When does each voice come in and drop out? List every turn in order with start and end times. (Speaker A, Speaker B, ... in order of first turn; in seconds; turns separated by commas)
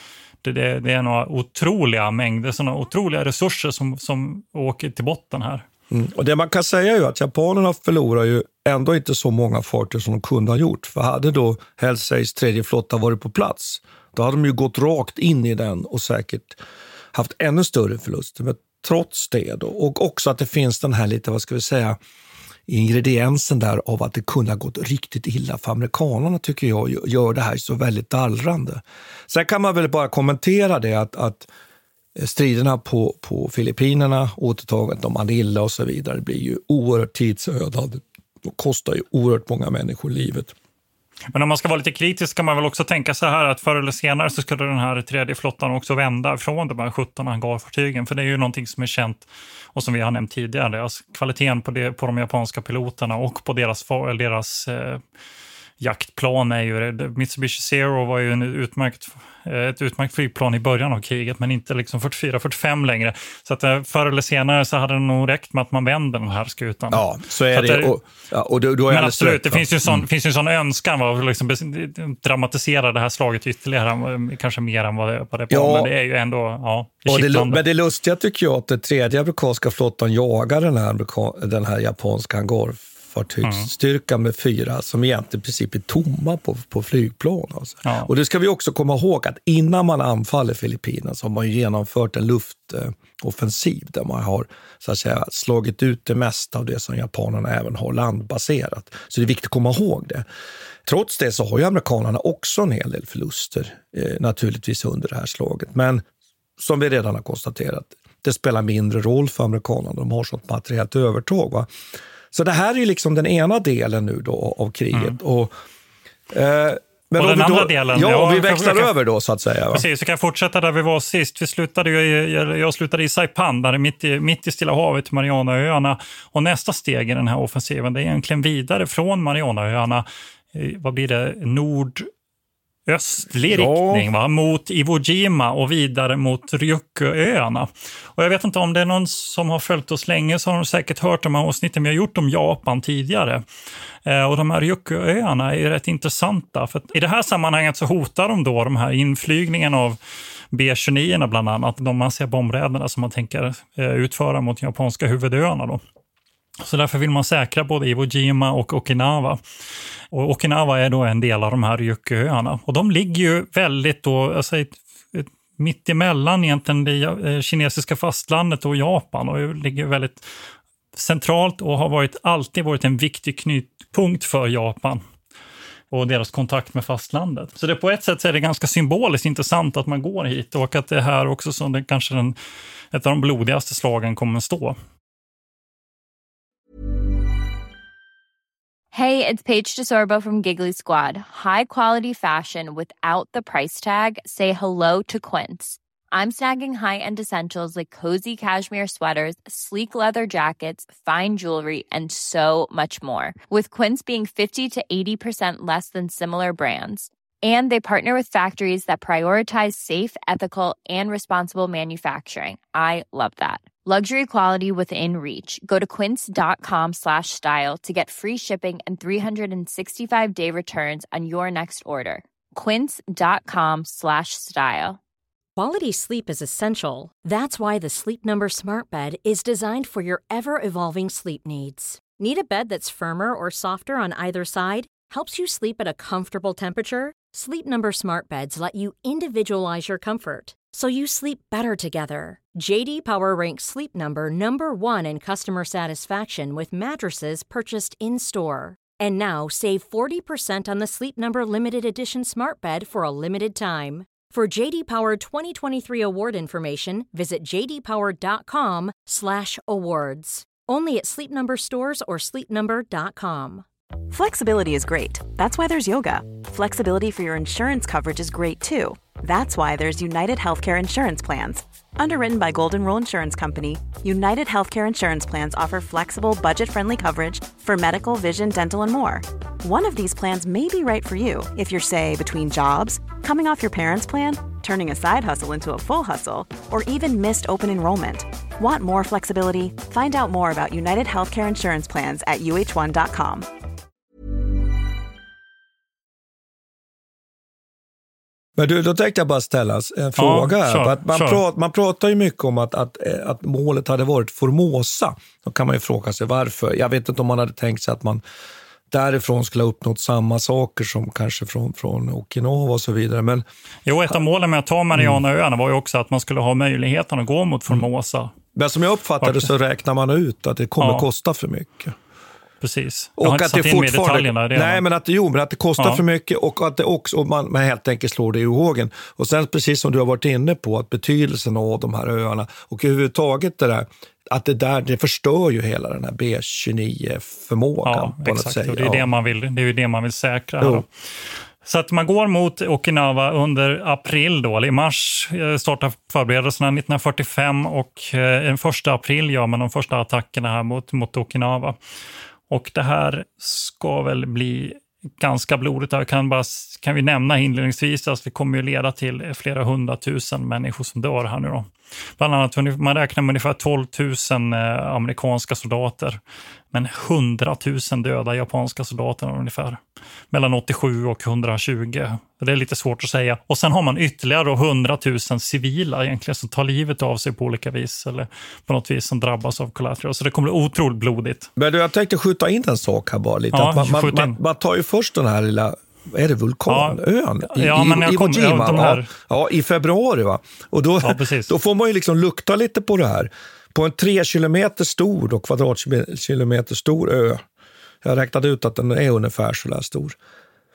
Speaker A: 0.4-5.7, Speaker B: 5.9-16.6, Speaker B: 17.1-22.0, Speaker B: 22.7-31.5, Speaker B: 32.2-40.5, Speaker A: 41.3-55.0, Speaker A: 55.8-68.0, Speaker B: 66.9-70.0, Speaker A: 68.9-77.6, Speaker B: 75.5-75.9, Speaker B: 77.1-100.3, Speaker A: 83.4-83.7, Speaker A: 87.8-88.1, Speaker B: 100.8-106.0, Speaker B: 106.6-111.7, Speaker B: 112.3-115.5, Speaker B: 116.3-119.9, Speaker A: 117.2-118.9, Speaker A: 119.7-132.1, Speaker A: 132.9-143.4, Speaker B: 133.5-134.1, Speaker A: 144.1-150.0, Speaker A: 150.5-155.8, Speaker A: 156.6-159.4, Speaker A: 160.1-170.3, Speaker A: 170.9-175.0, Speaker A: 175.9-182.4, Speaker A: 182.9-184.8, Speaker C: 188.9-225.0, Speaker D: 225.6-263.6, Speaker E: 264.1-293.5, Speaker B: 298.6-308.2, Speaker A: 300.2-301.4, Speaker B: 308.9-313.4, Speaker A: 313.9-318.3, Speaker B: 314.9-315.2, Speaker B: 318.6-321.9, Speaker A: 319.2-319.5, Speaker A: 320.8-321.1, Speaker A: 322.6-324.8, Speaker B: 323.2-339.1, Speaker A: 337.9-340.9, Speaker A: 341.6-351.8, Speaker A: 352.5-366.2, Speaker A: 366.7-369.8, Speaker A: 370.3-381.5, Speaker B: 381.6-397.4, Speaker A: 383.5-384.4, Speaker A: 386.7-389.1, Speaker A: 391.0-391.5, Speaker B: 398.0-400.2